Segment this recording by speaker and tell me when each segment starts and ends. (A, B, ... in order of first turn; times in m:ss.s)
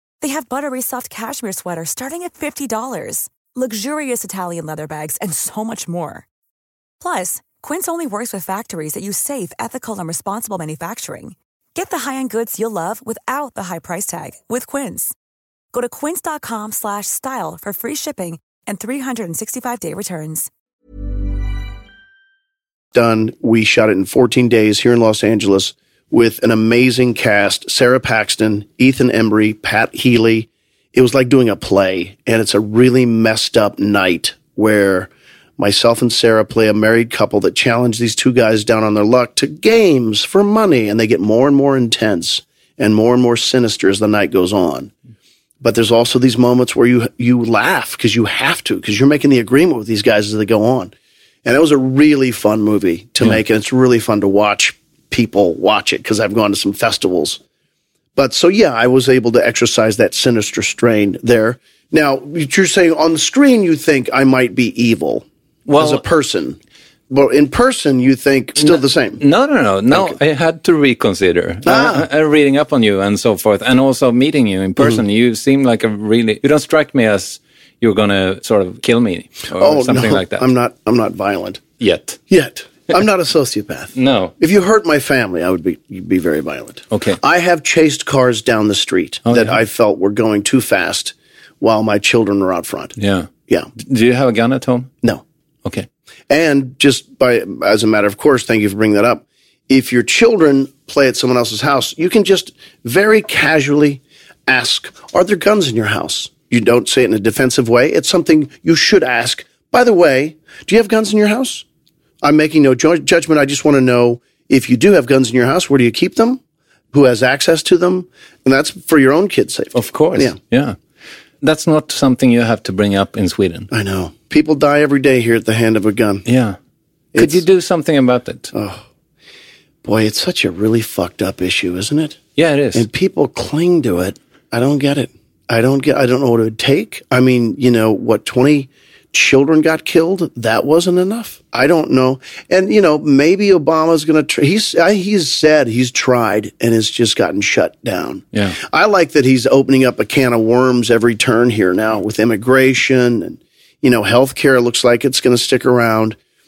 0:00.2-0:06.2 A
0:07.0-0:15.1 A
0:15.7-0:20.5 A
0:22.9-0:44.9 B
0:45.6-0:50.9 B
0:51.4-0:57.4 B
0:58.2-1:05.2 B
1:05.7-1:06.0 C
1:05.8-1:06.6 B
1:07.1-1:09.2 B
1:08.6-1:20.4 C
1:09.9-1:10.2 B
1:11.6-1:12.1 B
1:19.5-1:21.6 B
1:21.8-1:22.2 C
1:22.3-1:32.9 B
1:23.9-1:24.3 C
1:26.9-1:27.2 C
1:29.2-1:29.6 C
1:33.0-1:34.9 C
1:36.3-1:51.6 B
1:52.2-1:56.4 B
1:56.9-2:00.4 B
1:59.7-2:00.8 C
2:01.4-2:03.7 C
2:03.7-2:06.2 B
2:06.2-2:06.6 C
2:07.1-2:07.4 B
2:07.2-2:08.5 C
2:08.5-2:08.8 B
2:09.8-2:12.2 B
2:12.4-2:12.8 C
2:12.7-2:36.2 B
2:28.3-2:28.6 C